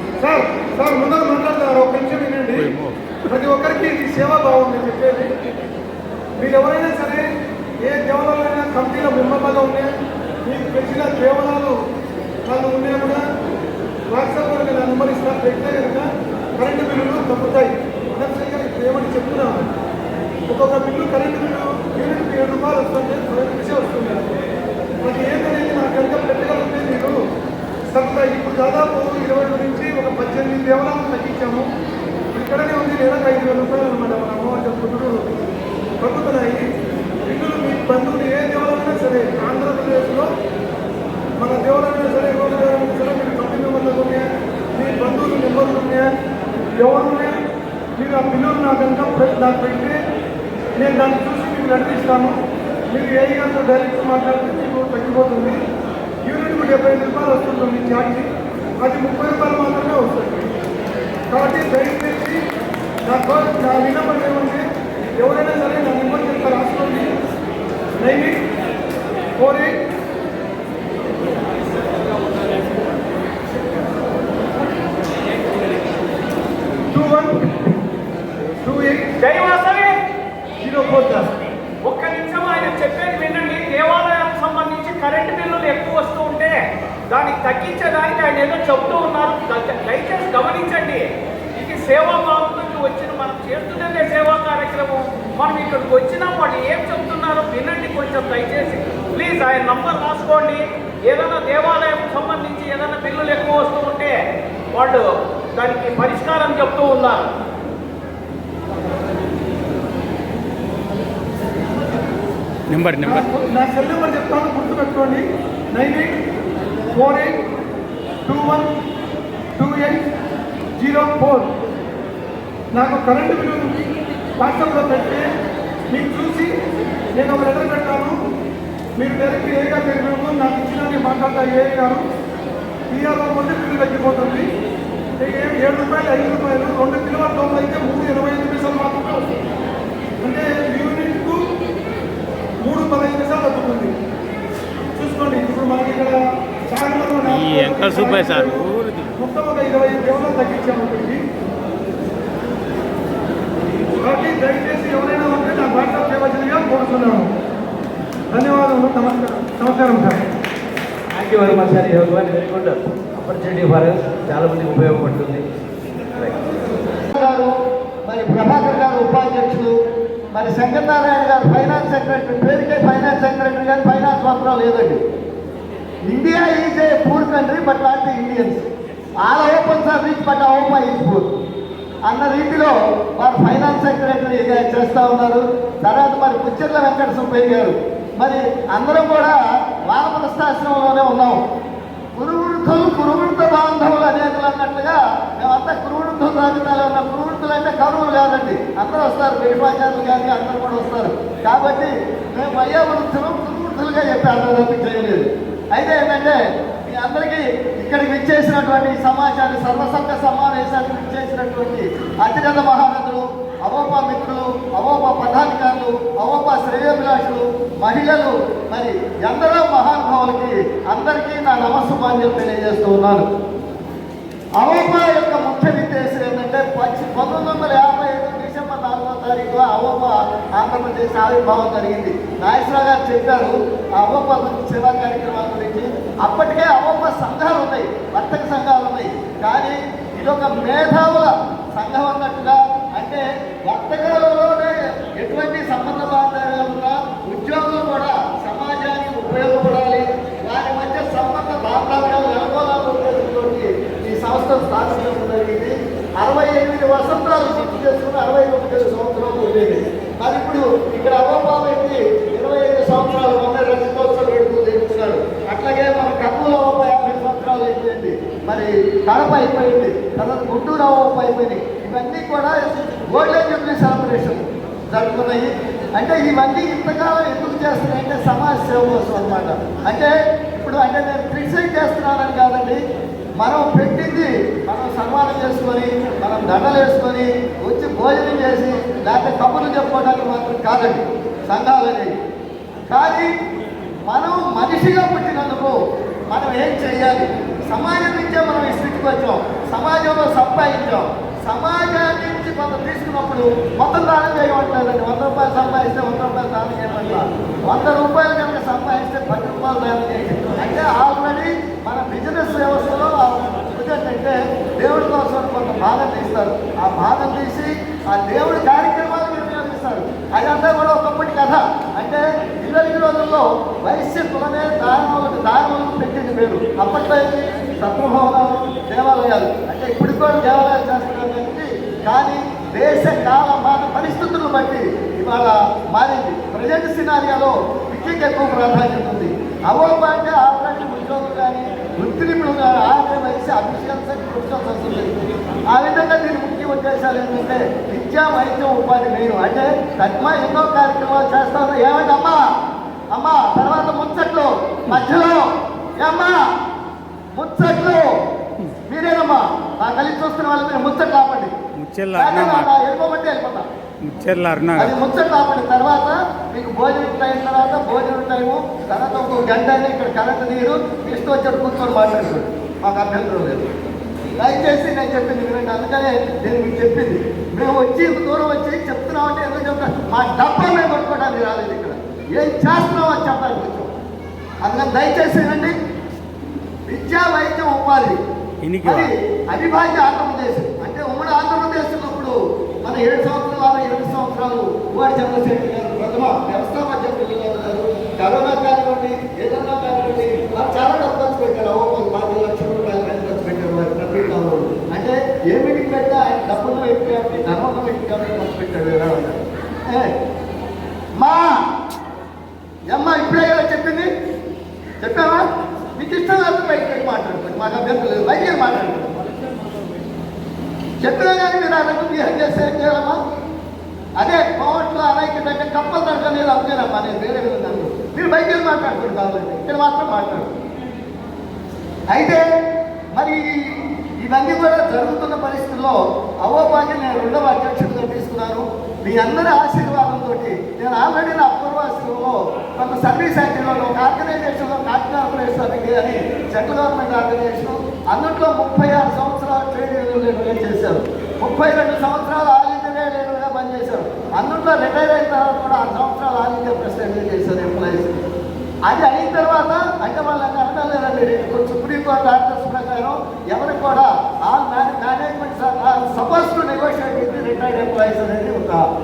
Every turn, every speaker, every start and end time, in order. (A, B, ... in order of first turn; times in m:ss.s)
0:00.2-0:02.7 A
0:02.5-0:03.0 B
0:03.3-0:05.3 A
0:06.4-0:07.2 A
0:07.8-0:09.9 A
0:10.4-0:11.8 A
0:12.5-0:13.2 A
0:14.1-0:19.7 A
0:20.5-0:24.2 A
0:25.0-0:27.2 A
0:27.9-0:31.7 A
0:32.3-0:35.3 A
0:36.0-0:36.7 A
0:37.2-0:40.3 A
0:41.4-0:46.1 A
0:46.8-0:47.4 A
0:48.0-0:50.0 A
0:50.8-0:52.4 A
0:52.9-0:55.6 A
0:56.2-0:58.3 A
0:58.8-1:00.5 A
1:01.3-1:02.4 A
1:03.0-1:07.1 A
1:08.0-1:08.4 A
1:09.4-1:09.7 A
1:16.9-1:17.5 A
1:18.6-1:19.1 A
1:19.2-1:20.0 C
1:20.6-1:21.3 A
1:21.8-1:26.6 C
1:27.1-1:44.2 C
1:44.7-1:47.3 C
1:52.7-1:53.2 B
1:53.0-1:56.1 A
1:56.9-1:57.4 A
1:58.3-1:58.7 A
1:59.6-2:00.0 A
2:00.8-2:01.5 A
2:02.7-2:03.8 A
2:04.4-2:05.2 A
2:05.9-2:06.5 A
2:07.1-2:08.2 A
2:09.0-2:12.0 A
2:12.9-2:14.5 A
2:15.2-2:19.3 A
2:20.2-2:21.4 A
2:22.6-2:23.9 A
2:25.0-2:31.2 A
2:27.3-2:29.1 B
2:34.0-2:37.3 A
2:38.3-2:40.2 A
2:41.1-2:45.4 D
2:47.1-2:47.5 E
2:48.1-2:49.7 E
2:50.3-2:55.0 E
2:56.1-2:58.7 E
2:59.2-3:01.4 E
3:02.1-3:11.4 E
3:12.2-3:43.2 E
3:44.6-4:42.8 E
4:43.4-4:52.1 E
4:52.9-4:53.3 E
4:54.0-4:55.8 E
4:56.3-5:45.1 E
5:45.7-5:52.4 E
5:53.1-5:55.4 E
5:56.0-5:56.4 E
5:57.4-5:58.1 E
5:58.9-6:01.5 E
6:01.8-6:02.7 B
6:02.1-6:03.7 E
6:04.1-6:04.9 B
6:04.8-6:13.7 E
6:14.4-6:23.9 E
6:24.6-6:25.8 E
6:26.9-6:28.2 E
6:28.6-6:29.1 B
6:28.8-6:32.3 E
6:32.8-6:50.1 E
6:51.2-6:51.5 E
6:52.9-6:54.1 E
6:55.0-6:55.4 E
6:56.0-6:59.2 E
7:01.0-7:03.2 E
7:04.2-7:10.5 E
7:12.1-7:12.4 E
7:13.2-7:38.1 E
7:38.9-7:48.8 E